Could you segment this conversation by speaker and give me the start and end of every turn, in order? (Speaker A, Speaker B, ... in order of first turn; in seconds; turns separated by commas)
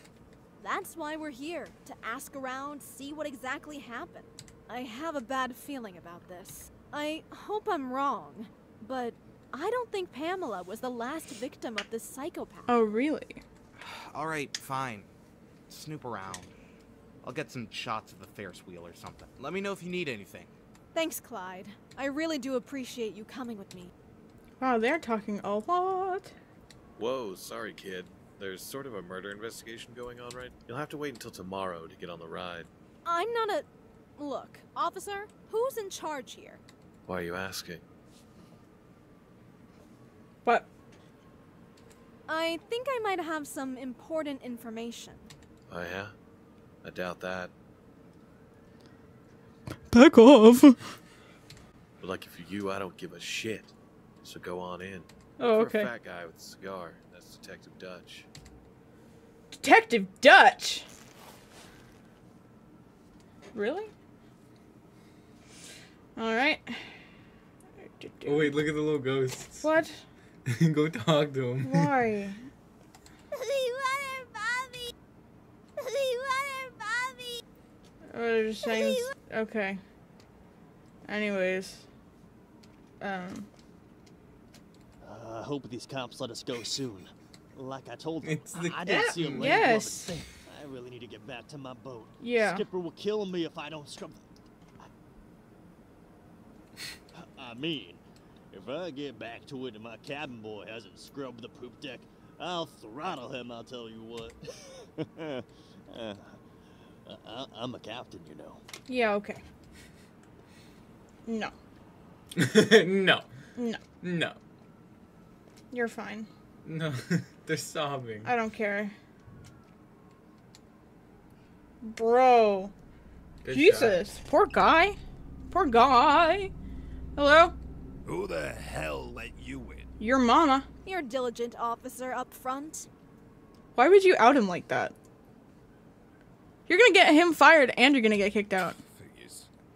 Speaker A: 0.6-12.7, Speaker B: 12.7-13.4, Speaker C: 13.8-15.1, Speaker C: 15.7-16.5, Speaker C: 17.2-20.5, Speaker A: 20.9-23.9, Speaker B: 24.6-26.3, Speaker D: 27.0-32.7, Speaker A: 33.1-33.7, Speaker A: 34.2-36.6, Speaker D: 37.1-37.8, Speaker A: 42.3-45.3, Speaker D: 45.7-46.1, Speaker D: 46.8-47.5, Speaker B: 49.9-50.8, Speaker D: 52.0-58.3, Speaker B: 55.4-55.9, Speaker B: 59.6-60.9, Speaker B: 63.5-63.9, Speaker B: 66.2-66.9, Speaker B: 67.9-68.5, Speaker E: 68.2-69.7, Speaker B: 69.6-70.0, Speaker E: 70.5-71.9, Speaker B: 71.6-72.4, Speaker A: 73.3-74.9, Speaker A: 75.8-77.4, Speaker B: 78.1-79.8, Speaker A: 78.7-79.1, Speaker B: 81.1-81.9, Speaker B: 83.0-83.5, Speaker F: 85.0-94.2, Speaker E: 88.2-89.5, Speaker B: 89.3-90.1, Speaker B: 92.2-92.7, Speaker F: 97.1-106.4, Speaker F: 107.0-108.6, Speaker B: 108.9-109.4, Speaker B: 111.3-111.5, Speaker E: 112.3-113.3, Speaker B: 113.6-113.8, Speaker E: 114.0-114.4, Speaker B: 115.7-116.3, Speaker E: 116.7-118.3, Speaker B: 118.2-119.0, Speaker B: 121.8-122.7, Speaker E: 123.4-124.0, Speaker B: 123.5-125.0, Speaker B: 125.5-126.5, Speaker B: 127.2-127.5, Speaker G: 128.1-129.9, Speaker B: 130.0-130.7, Speaker A: 130.8-132.9, Speaker B: 133.8-134.9, Speaker B: 136.7-138.8, Speaker G: 138.9-139.5